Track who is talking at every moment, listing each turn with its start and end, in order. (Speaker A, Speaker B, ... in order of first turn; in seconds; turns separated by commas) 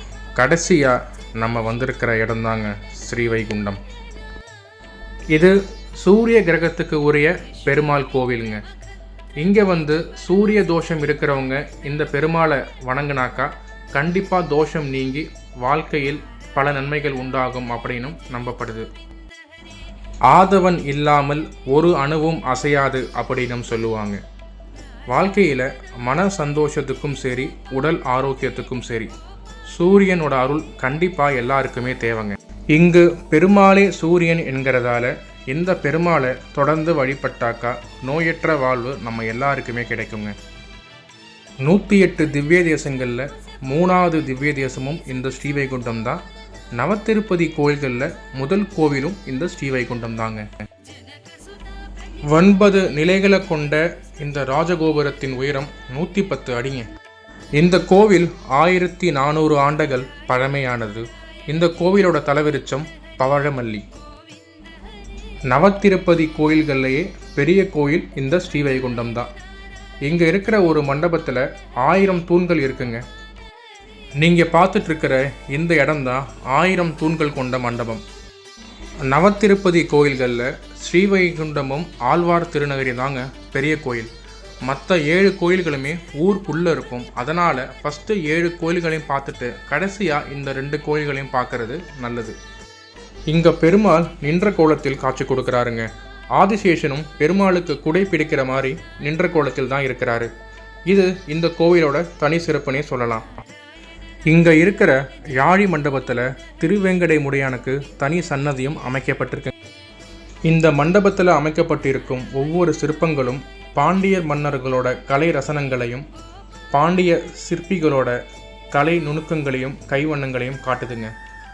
Speaker A: 0.4-3.8, Speaker A: 5.3-8.6, Speaker A: 9.4-18.9, Speaker A: 20.3-24.2, Speaker A: 25.1-29.1, Speaker A: 29.7-40.4, Speaker A: 41.6-46.2, Speaker A: 46.8-50.5, Speaker A: 52.3-56.9, Speaker A: 57.6-63.9, Speaker A: 65.5-69.3, Speaker A: 70.1-73.0, Speaker A: 74.2-78.0, Speaker A: 79.0-84.1, Speaker A: 84.7-92.4, Speaker A: 93.3-100.3, Speaker A: 100.9-103.3, Speaker A: 104.3-109.5, Speaker A: 110.5-116.1, Speaker A: 116.7-118.2, Speaker A: 118.7-121.1